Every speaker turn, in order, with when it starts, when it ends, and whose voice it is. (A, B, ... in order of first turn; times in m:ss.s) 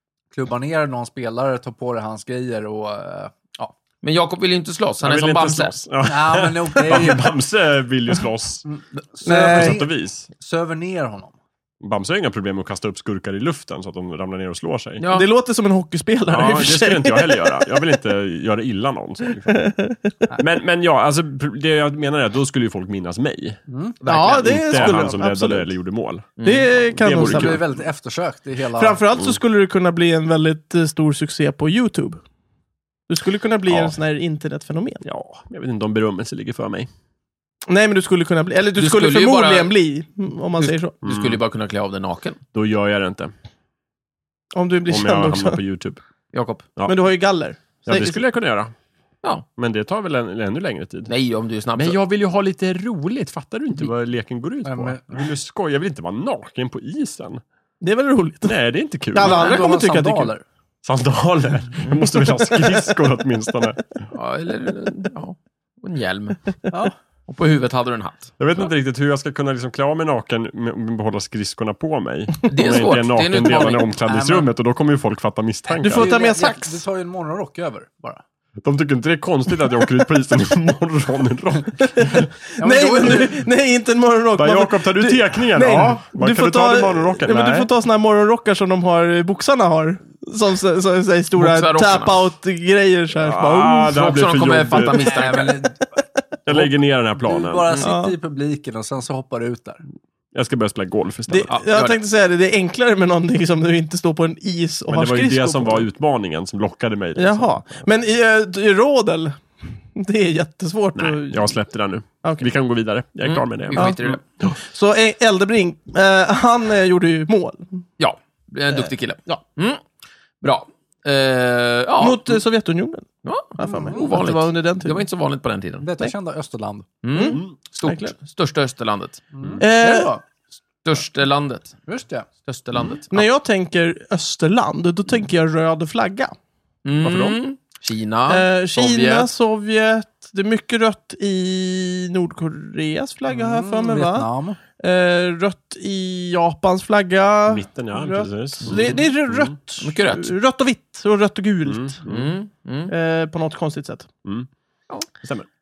0:00.3-0:03.3 A
0:03.6-0:05.7 B
0:05.0-0:08.6 C
0:06.0-0:07.3 A
0:08.7-0:11.3 A
0:09.2-0:09.8 D
0:09.5-0:10.3 C
0:11.8-0:15.0 C
0:15.0-0:15.3 B
0:15.1-0:17.7 D
0:16.3-0:19.6 C
0:19.5-0:20.1 D
0:20.4-0:23.6 C
0:23.7-0:24.0 A
0:24.0-0:25.2 B
0:24.1-0:25.7 D
0:24.4-0:27.6 C
0:26.4-0:26.7 B
0:26.4-0:27.6 D
0:27.1-0:29.0 A
0:28.8-0:32.2 D
0:33.1-0:35.0 D
0:33.7-0:34.0 C
0:35.0-0:36.9 C
0:37.7-0:41.0 D
0:38.8-0:39.7 B
0:40.6-0:42.4 B
0:41.0-0:41.4 C
0:42.5-0:43.3 C
0:44.5-0:45.6 D
0:44.9-0:46.0 C
0:46.3-0:46.7 B
0:46.9-0:48.2 D
0:47.9-0:48.7 C
0:49.6-0:51.1 C
0:51.1-0:52.0 B
0:51.8-0:57.4 C
0:54.6-0:55.2 A
0:57.8-0:58.6 D
0:58.4-0:59.6 C
0:59.1-1:00.3 D
0:59.2-1:00.4 A
1:00.8-1:03.9 C
1:02.2-1:02.8 D
1:04.1-1:06.5 B
1:07.3-1:08.3 B
1:08.4-1:16.1 C
1:12.5-1:13.9 B
1:14.1-1:14.5 A
1:15.7-1:18.2 A
1:15.8-1:16.8 D
1:18.6-1:22.3 C
1:21.8-1:34.0 D
1:22.6-1:23.5 A
1:24.4-1:27.7 C
1:31.4-1:32.2 B
1:33.2-1:35.1 C
1:33.9-1:35.7 B
1:35.0-1:35.8 A
1:36.5-1:37.7 C
1:36.5-1:39.8 A
1:37.8-1:38.2 D
1:40.3-1:41.5 C
1:41.3-1:45.9 D
1:41.5-1:42.0 B
1:44.9-1:47.8 C
1:47.2-1:51.6 D
1:51.0-1:54.5 C
1:53.2-1:54.2 B
1:53.8-1:57.8 D
1:58.0-1:59.8 B
1:58.7-1:59.4 D
2:00.4-2:02.4 B
2:02.0-2:05.0 D
2:03.2-2:06.1 B
2:03.6-2:04.1 A
2:05.8-2:07.0 A
2:07.0-2:09.2 B
2:07.1-2:08.1 D
2:09.3-2:10.2 A
2:09.6-2:10.2 D
2:10.8-2:11.8 B
2:11.9-2:12.3 A
2:12.4-2:13.3 B
2:13.1-2:16.4 D
2:16.8-2:19.3 B
2:17.0-2:17.4 C
2:18.3-2:32.0 D
2:23.3-2:24.6 A
2:27.5-2:29.5 C
2:29.8-2:30.4 B
2:31.6-2:32.3 C
2:32.0-2:32.9 B
2:32.9-2:34.1 D
2:35.2-2:35.5 C